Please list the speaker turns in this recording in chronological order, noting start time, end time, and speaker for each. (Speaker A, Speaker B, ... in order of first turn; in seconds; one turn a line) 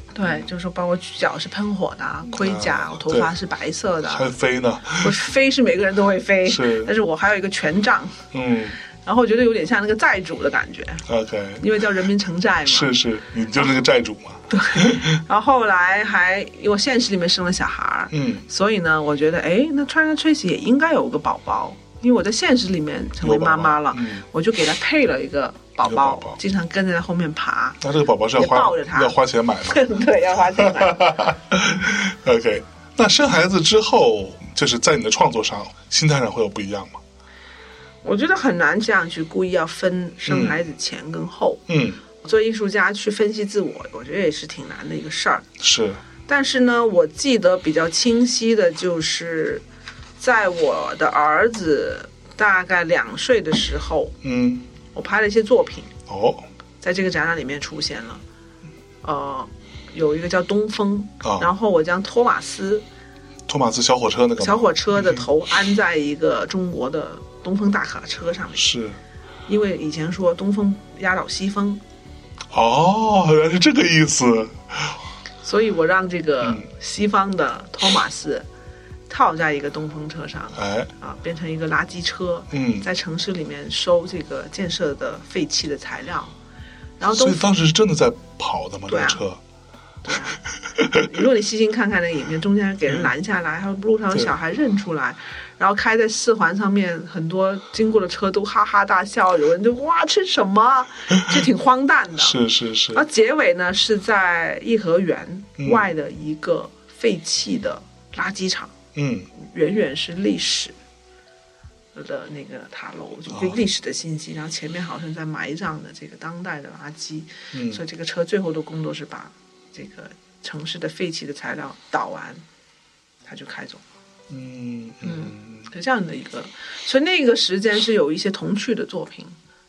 Speaker A: 0.1-4.3
Speaker B: 2.4-3.3
Speaker B: 4.0-5.2
Speaker A: 5.0-8.2
Speaker B: 6.5-6.9
Speaker B: 8.3-8.8
Speaker A: 9.0-11.0
Speaker B: 11.1-11.7
Speaker A: 11.6-12.9
Speaker B: 12.7-15.2
Speaker A: 14.5-27.8
Speaker B: 18.1-18.4
Speaker B: 23.2-24.2
Speaker B: 25.8-26.4
Speaker B: 27.8-29.8
Speaker A: 28.4-31.3
Speaker B: 30.6-37.0
Speaker A: 38.0-41.6
Speaker B: 40.2-40.6
Speaker B: 41.7-42.0
Speaker A: 42.2-45.5
Speaker B: 45.6-46.0
Speaker A: 46.3-49.6
Speaker A: 50.2-54.1
Speaker B: 54.2-54.6
Speaker A: 54.9-55.9
Speaker B: 56.1-56.5
Speaker A: 56.8-58.2
Speaker A: 59.0-62.8
Speaker B: 61.2-61.5
Speaker B: 63.5-65.2
Speaker A: 64.4-68.6
Speaker B: 68.5-69.0
Speaker A: 69.5-71.8
Speaker B: 72.5-75.0
Speaker A: 75.4-78.5
Speaker A: 79.1-86.3
Speaker B: 80.5-80.9
Speaker B: 82.5-82.8
Speaker A: 87.0-87.5
Speaker B: 87.1-89.4
Speaker A: 88.9-89.2
Speaker A: 90.0-90.4
Speaker B: 90.7-91.1
Speaker A: 90.9-102.4
Speaker B: 102.2-103.0
Speaker A: 102.9-108.7
Speaker B: 105.6-105.8
Speaker B: 108.9-109.3
Speaker A: 109.3-110.7
Speaker A: 111.9-122.4
Speaker B: 113.3-113.6
Speaker B: 117.5-117.8
Speaker A: 123.2-123.8
Speaker B: 124.3-125.7
Speaker A: 125.0-129.3